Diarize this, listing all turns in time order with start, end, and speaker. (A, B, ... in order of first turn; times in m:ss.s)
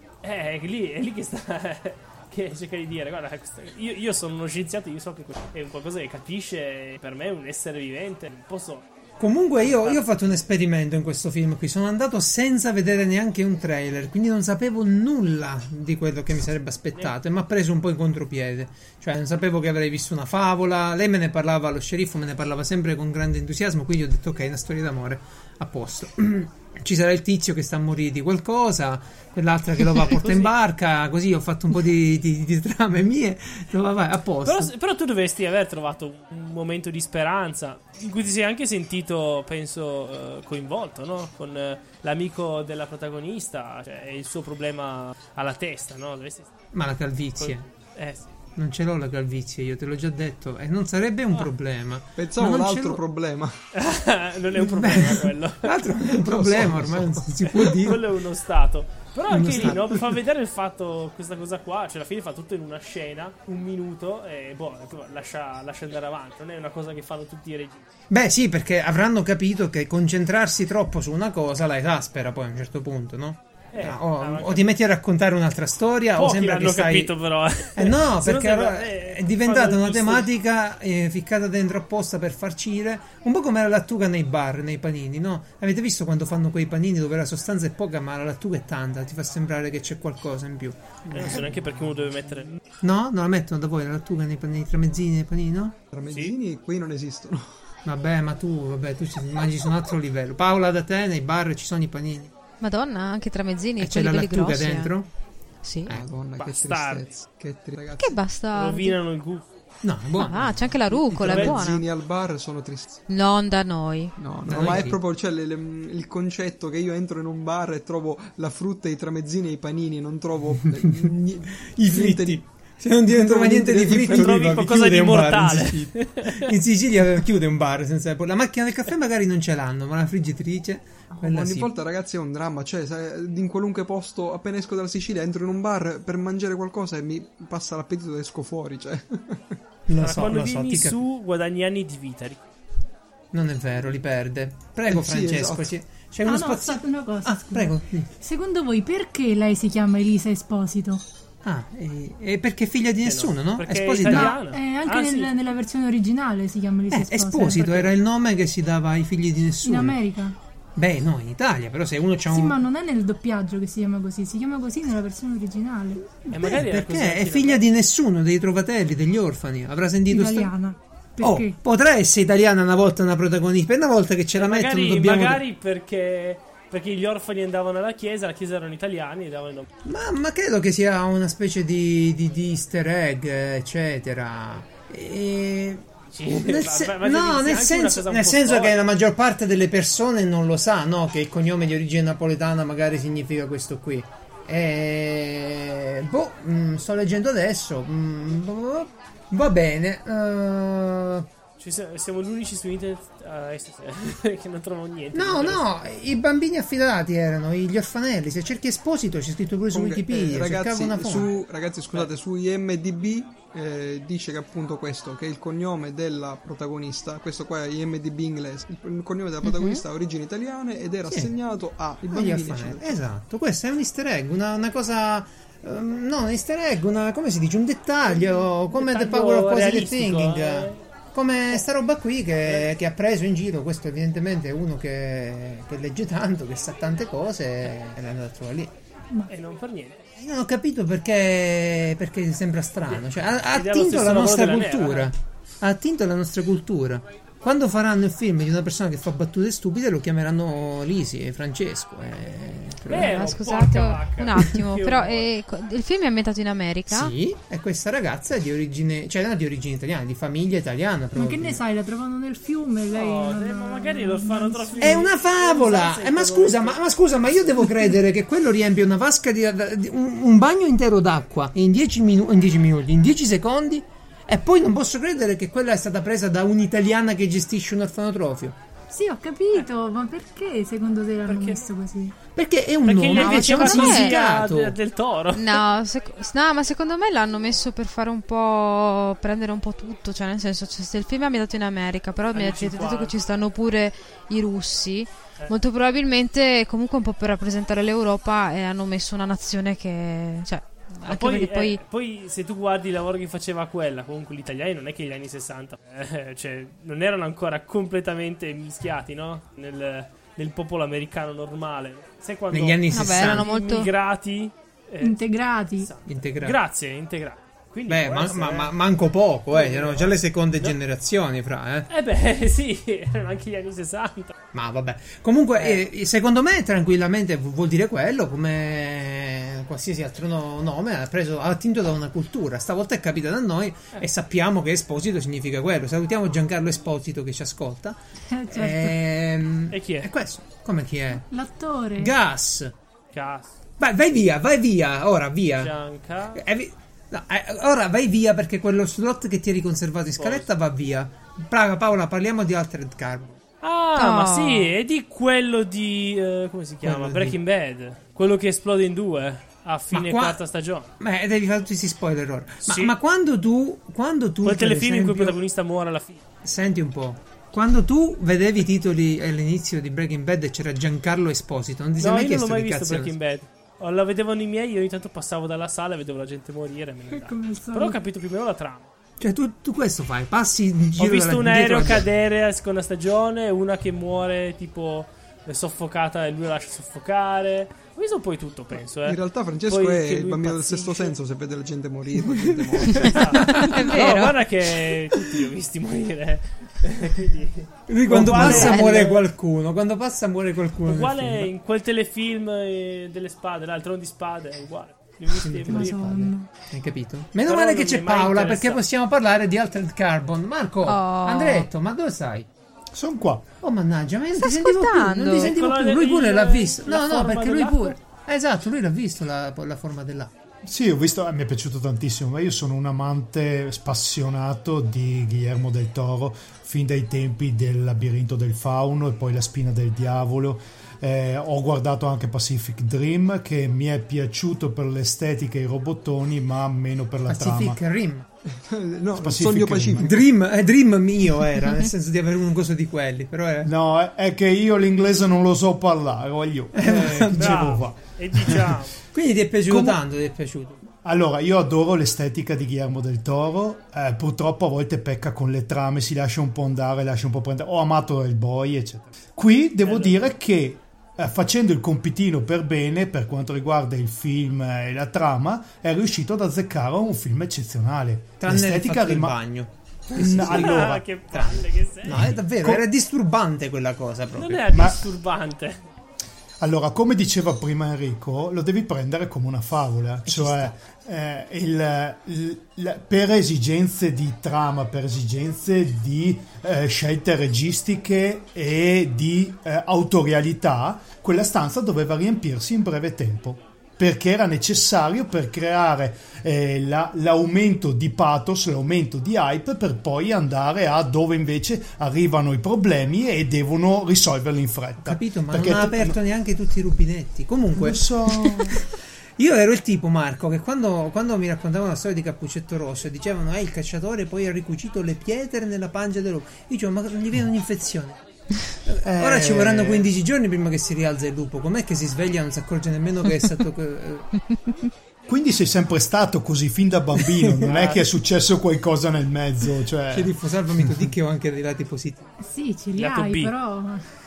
0:00.2-0:08.9 A
0:09.2-0:34.7 B
0:09.6-0:10.0 A
0:30.2-0:30.5 A
0:34.4-0:46.5 A
0:46.7-0:47.6 B
0:47.4-0:48.3 A
0:48.6-0:53.0 B
0:52.2-0:53.6 C
0:53.7-0:55.8 A
0:54.5-0:58.0 B
0:56.1-0:57.6 C
0:57.5-1:07.8 A
0:59.3-1:00.0 B
1:08.1-1:17.1 B
1:13.7-1:14.7 A
1:16.2-1:20.3 A
1:17.7-1:31.5 B
1:31.1-1:31.6 C
1:31.1-1:32.6 A
1:32.8-1:35.8 B
1:35.9-1:37.5 C
1:37.8-1:42.3 B
1:42.6-1:44.9 D
1:43.8-1:45.1 B
1:45.6-1:45.9 D
1:45.9-1:48.2 C
1:46.4-1:47.2 A
1:48.0-1:49.0 D
1:48.5-1:49.4 A
1:49.8-1:50.7 B
1:50.2-1:51.8 D
1:50.9-1:53.0 C
1:51.2-1:51.6 A
1:53.1-1:54.1 D
1:54.2-2:02.4 C
1:54.5-1:55.0 B
2:01.6-2:11.7 B
2:03.0-2:04.6 C
2:04.1-2:06.5 A
2:11.2-2:19.6 C
2:19.9-2:21.0 B
2:20.0-2:22.4 A
2:23.3-2:28.1 B
2:24.9-2:25.7 C
2:26.2-2:31.0 E
2:31.4-2:34.4 B
2:33.0-2:35.4 A
2:34.0-2:37.6 E
2:36.9-2:40.0 B
2:37.4-2:38.0 A
2:39.6-2:40.4 E
2:40.8-2:42.6 B
2:42.3-2:46.1 E
2:46.3-2:47.6 A
2:46.3-2:50.5 B
2:50.1-2:51.6 E
2:51.2-2:55.4 B
2:54.4-2:59.7 A
2:59.8-3:21.3 B
3:06.1-3:08.8 A
3:21.6-3:25.7 A
3:25.1-3:31.3 B
3:29.7-3:43.0 C
3:39.4-3:39.8 D
3:41.1-3:41.3 B
3:42.1-3:58.7 B
3:48.1-3:50.8 A
3:59.3-4:00.0 A
4:00.2-4:13.3 B
4:02.9-4:05.1 A
4:12.9-4:15.3 A
4:12.9-4:17.1 D
4:16.9-4:21.6 B
4:21.1-4:25.1 E
4:22.9-4:26.8 A
4:24.8-4:38.6 B
4:38.9-4:42.2 E
4:41.2-4:41.6 A
4:42.4-4:44.8 B
4:42.8-4:45.6 A
4:43.1-4:44.1 D
4:45.3-5:01.8 D
4:52.3-4:53.1 A
5:01.1-5:15.2 A
5:12.5-5:13.5 B
5:12.9-5:13.9 D
5:15.0-5:15.9 E
5:15.8-5:18.7 A
5:16.1-5:16.6 B
5:17.9-5:21.9 B
5:19.5-5:20.8 A
5:21.9-5:24.3 A
5:24.5-5:38.0 B
5:25.6-5:25.8 A
5:38.3-5:39.0 E
5:38.5-5:41.2 B
5:39.7-5:40.1 A
5:41.2-5:42.1 E
5:41.9-5:42.7 B
5:43.1-5:43.5 A
5:43.8-5:45.7 B
5:45.6-5:46.4 A
5:46.3-5:53.4 B
5:50.2-5:50.5 A
5:53.6-6:00.9 A
5:54.0-5:54.7 D
5:56.8-5:57.4 B
5:59.9-6:00.4 B
6:01.0-6:05.4 B
6:02.6-6:02.9 A
6:04.4-6:06.2 A
6:06.4-6:13.1 B
6:12.0-6:18.9 A
6:17.1-6:18.0 E
6:19.2-6:22.1 B
6:21.0-6:31.2 A
6:29.0-6:33.6 C
6:32.2-6:34.3 B
6:32.9-6:39.2 A
6:33.6-6:34.4 D
6:37.9-6:41.5 B
6:38.2-6:38.5 F
6:38.4-6:39.0 D
6:40.9-6:46.0 A
6:45.4-6:52.5 B
6:45.7-6:46.5 E
6:47.5-6:48.8 A
6:50.8-6:51.7 D
6:52.9-6:53.5 F
6:53.6-7:00.3 B
6:54.4-6:55.5 D
6:55.4-6:58.0 A
7:00.6-7:17.8 F
7:17.3-7:18.3 B
7:18.5-7:20.2 C
7:19.2-7:20.1 F
7:20.0-7:23.7 B
7:23.6-7:28.8 F
7:26.7-7:27.7 B
7:27.3-7:28.9 A
7:29.1-7:30.8 B
7:29.7-7:30.0 F
7:31.0-7:49.4 F
7:39.8-7:40.2 A
7:48.4-7:54.8 B
7:50.1-7:52.4 A
7:50.1-7:51.0 F
7:54.4-7:55.9 A
7:54.7-7:55.1 F
7:56.6-8:26.2 F
8:00.2-8:00.8 B
8:25.0-8:28.8 B
8:27.8-8:28.8 F
8:29.4-8:38.2 B
8:38.8-8:44.3 B
8:39.0-8:40.0 F
8:45.3-8:50.3 F
8:47.2-8:47.7 B
8:47.7-8:48.1 A
8:50.1-8:52.3 B
8:52.4-8:54.0 E
8:53.0-8:53.5 A